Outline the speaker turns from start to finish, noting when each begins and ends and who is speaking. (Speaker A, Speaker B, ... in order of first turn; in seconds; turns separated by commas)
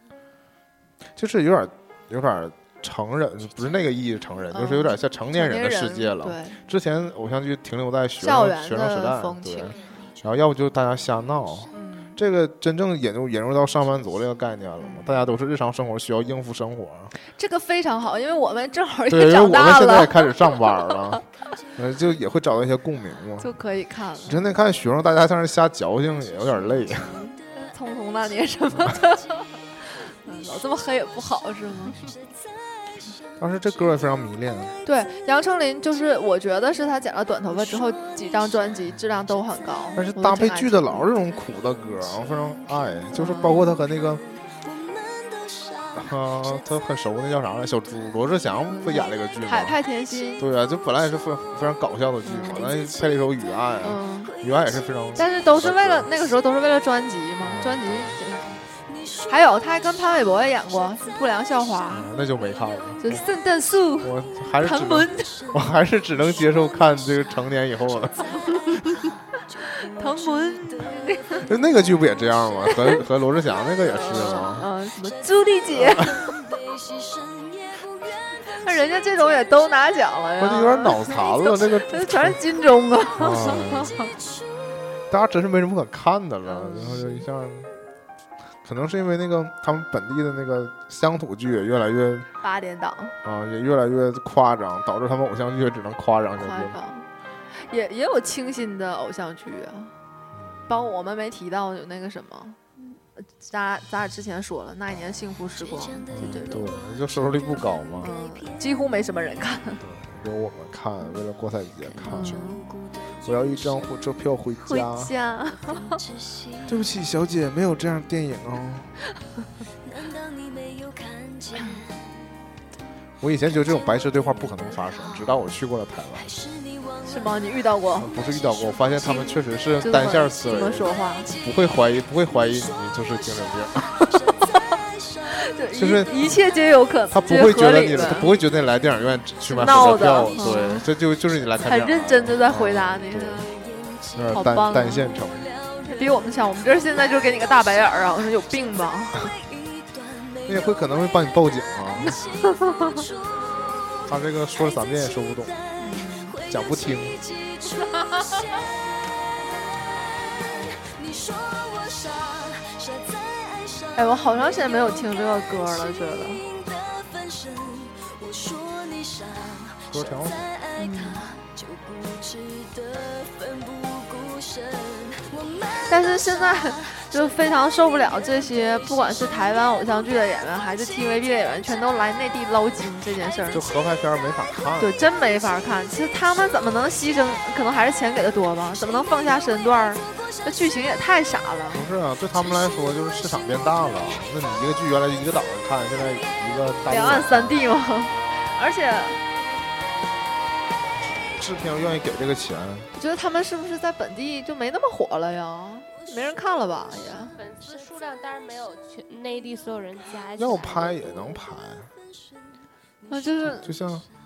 Speaker A: 1.1-17.1, Speaker B: 4.5-6.6, Speaker B: 8.2-9.8, Speaker B: 11.7-12.2, Speaker B: 14.8-15.2, Speaker B: 17.3-21.1, Speaker A: 19.1-23.5, Speaker B: 23.4-24.5, Speaker A: 24.2-27.1, Speaker B: 27.0-32.0, Speaker A: 33.4-34.7, Speaker B: 34.8-41.1, Speaker A: 40.0-44.2, Speaker B: 43.1-43.8, Speaker A: 45.9-49.8, Speaker B: 48.7-50.4, Speaker A: 50.4-56.1, Speaker B: 52.2-52.7, Speaker B: 53.8-54.3, Speaker B: 55.2-58.6, Speaker A: 57.4-58.2, Speaker B: 59.3-62.1, Speaker A: 61.9-63.2, Speaker B: 63.0-65.4, Speaker A: 64.0-68.5, Speaker B: 69.6-71.5, Speaker A: 71.4-74.7, Speaker B: 72.7-73.0, Speaker B: 73.8-76.2, Speaker A: 75.7-76.2, Speaker B: 78.5-84.1, Speaker A: 80.4-82.4, Speaker A: 83.2-84.0, Speaker A: 85.1-87.7, Speaker B: 86.5-87.2, Speaker A: 88.6-92.3, Speaker B: 92.4-93.1, Speaker A: 93.2-96.8, Speaker B: 96.4-99.9, Speaker A: 100.3-100.7, Speaker B: 100.7-106.7, Speaker A: 106.1-108.1, Speaker B: 108.0-109.8, Speaker A: 109.8-112.4, Speaker B: 112.0-112.7, Speaker A: 113.2-115.1, Speaker B: 114.6-116.0, Speaker A: 116.7-118.9, Speaker A: 123.2-126.3, Speaker B: 127.0-128.1, Speaker A: 128.0-133.9, Speaker B: 129.8-131.3, Speaker B: 135.3-138.3, Speaker A: 135.7-136.4, Speaker A: 137.1-143.5, Speaker B: 139.5-140.8, Speaker B: 141.6-143.5, Speaker A: 144.1-145.5, Speaker B: 144.3-145.1, Speaker B: 145.8-149.3, Speaker A: 150.4-152.2, Speaker B: 152.4-153.0, Speaker A: 154.1-155.6, Speaker B: 155.8-156.4, Speaker A: 156.5-157.2, Speaker B: 163.9-166.5, Speaker A: 169.9-170.5, Speaker B: 170.8-171.4, Speaker B: 175.8-183.6, Speaker A: 183.5-185.0, Speaker B: 184.8-191.8, Speaker A: 191.7-197.6, Speaker B: 196.9-199.2, Speaker A: 201.3-202.9, Speaker B: 202.9-207.3, Speaker C: 207.3-211.4, Speaker A: 210.4-211.9, Speaker B: 213.1-213.7, Speaker A: 213.4-214.1